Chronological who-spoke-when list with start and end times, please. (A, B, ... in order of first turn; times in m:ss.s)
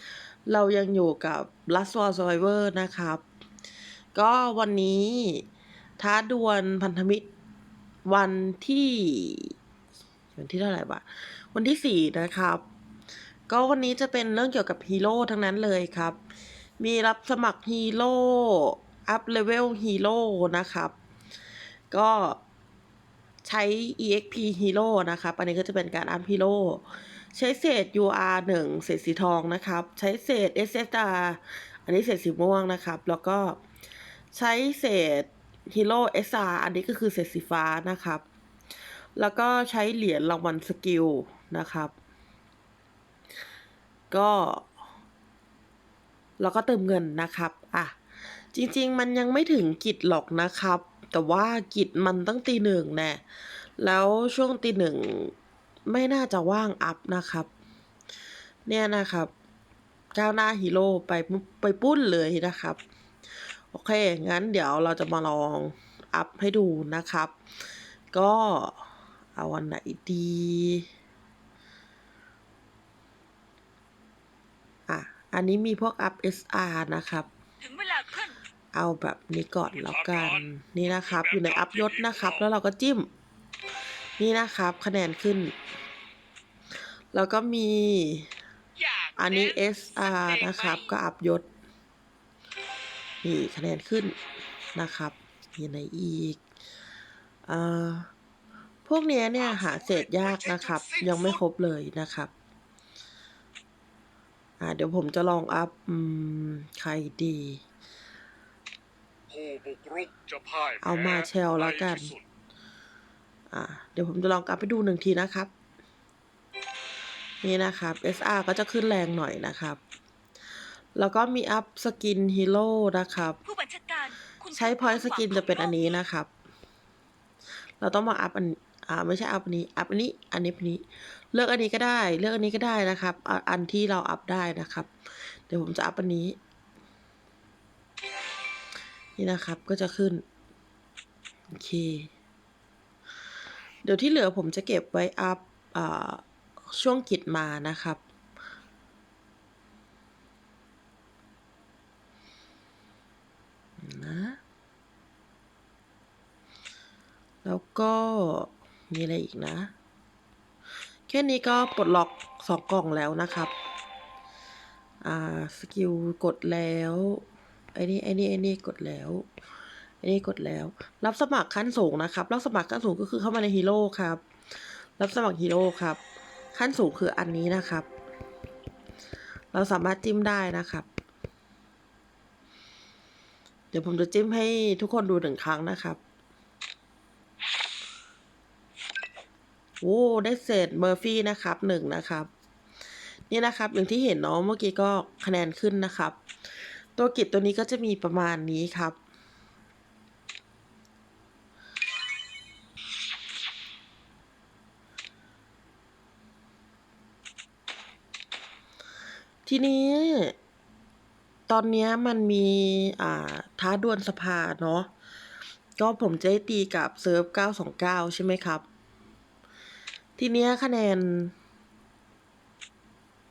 0:00.4-0:03.2 A
0:04.1-0:05.4 A
0:06.0-0:07.3 A
0:08.0-0:09.5 A
0:10.4-0:12.6 A
0:13.5-0:16.2 A
0:16.8-0:20.9 A
0:21.9-0:22.4 A
0:23.4-0:33.6 A
0:34.3-0:38.2 A
0:39.2-0:41.9 A
0:44.1-0:44.7 A
0:46.4-0:48.0 A
0:48.5-0:53.2 A
0:53.8-0:55.3 A
0:55.9-0:57.5 A
0:58.6-0:59.3 A
1:00.1-1:02.8 A
1:03.7-1:07.3 A
1:08.1-1:10.9 A
1:14.9-1:17.3 A
1:17.6-1:18.4 B
1:18.7-1:23.1 A
1:19.9-1:20.4 C
1:21.0-1:22.3 C
1:24.2-1:25.5 A
1:27.1-1:28.3 A
1:28.8-1:29.1 B
1:29.2-1:31.5 A
1:30.3-1:30.7 B
1:33.2-1:34.2 A
1:34.7-1:36.4 A
1:37.5-1:38.1 A
1:38.8-1:42.3 A
1:39.9-1:41.1 C
1:44.6-1:47.6 A
1:49.3-1:52.2 C
1:50.8-1:52.1 A
1:53.5-1:55.5 A
1:57.4-1:59.8 A
2:00.9-2:03.4 A
2:03.4-2:05.9 B
2:04.5-2:06.3 A
2:07.8-2:16.4 A
2:19.2-2:20.2 A
2:21.5-2:22.1 A
2:23.8-2:28.0 A
2:33.8-2:34.4 A
2:37.4-2:39.7 A
2:41.1-2:43.5 A
2:45.0-2:49.3 A
2:50.0-2:54.2 A
2:55.0-2:56.0 A
2:56.5-2:57.9 A
2:59.5-3:00.9 A
3:03.7-3:06.0 A
3:09.8-3:12.3 A
3:13.3-3:16.2 A
3:17.0-3:19.0 A
3:29.4-3:30.3 A
3:31.5-3:34.9 A
3:35.8-3:38.6 A
3:40.2-3:41.3 A